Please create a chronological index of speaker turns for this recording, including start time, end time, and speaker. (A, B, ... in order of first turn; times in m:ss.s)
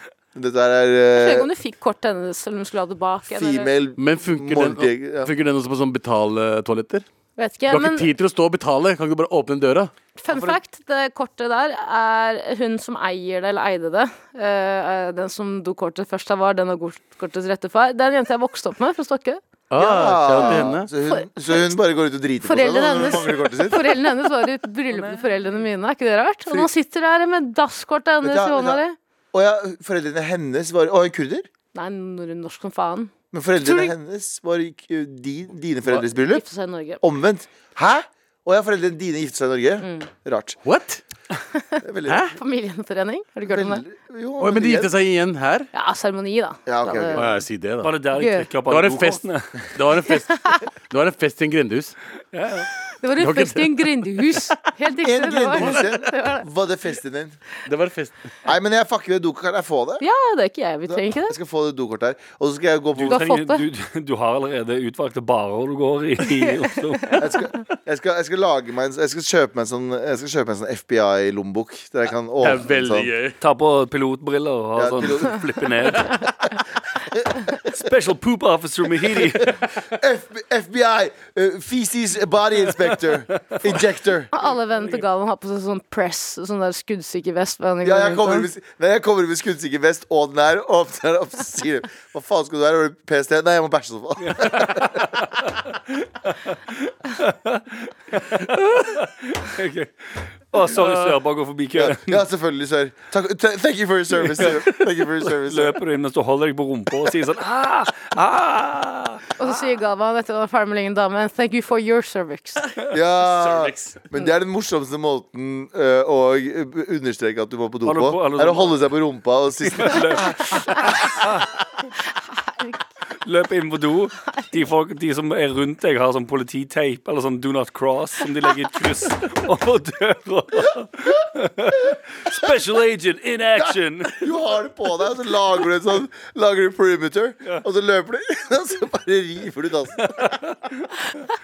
0:00.3-0:01.5 A
0:01.2-0:03.7 B
0:03.3-0:05.3 A
0:04.0-0:07.0 C
0:07.4-0:08.1 B
0:07.7-0:09.9 C
0:10.2-0:19.4 B
0:10.3-0:10.6 D
0:19.7-0:20.9 C
0:19.7-0:24.0 A
0:20.4-0:21.7 B
0:22.4-0:29.0 B
0:24.9-0:25.3 D
0:28.2-0:31.5 A
0:31.7-0:33.9 B
0:33.3-0:36.4 A
0:35.9-0:37.0 B
0:37.0-0:40.6 A
0:39.8-0:40.1 B
0:40.6-0:41.0 C
0:41.6-0:43.8 B
0:41.8-0:42.2 A
0:42.0-0:42.4 C
0:43.4-0:44.9 A
0:44.4-0:45.7 C
0:45.7-0:47.2 B
0:46.6-0:47.4 A
0:47.1-0:47.9 C
0:47.8-0:49.6 D
0:48.2-0:48.5 B
0:48.7-0:52.0 C
0:50.3-0:50.6 B
0:52.3-0:52.7 D
0:53.0-0:56.4 B
0:53.2-0:54.4 C
0:55.0-0:57.4 A
0:55.6-0:55.9 C
0:57.6-0:58.1 C
0:58.4-1:00.0 A
1:00.0-1:01.3 B
1:00.9-1:03.3 A
1:03.0-1:07.2 D
1:03.1-1:03.6 B
1:07.2-1:13.1 A
1:12.4-1:13.4 C
1:13.4-1:16.2 D
1:14.7-1:16.1 A
1:17.1-1:17.9 A
1:17.6-1:19.6 D
1:19.2-1:24.3 A
1:23.5-1:23.8 D
1:24.3-1:28.5 B
1:27.8-1:35.2 A
1:34.2-1:35.5 D
1:36.2-1:42.2 D
1:40.7-1:41.2 C
1:41.7-1:45.8 A
1:44.2-1:49.5 D
1:49.4-1:52.7 B
1:52.9-2:00.3 A
1:53.4-1:54.0 C
1:57.8-1:58.8 D
1:59.6-2:01.5 D
2:03.2-2:14.2 D
2:11.7-2:12.5 A
2:13.6-2:20.3 A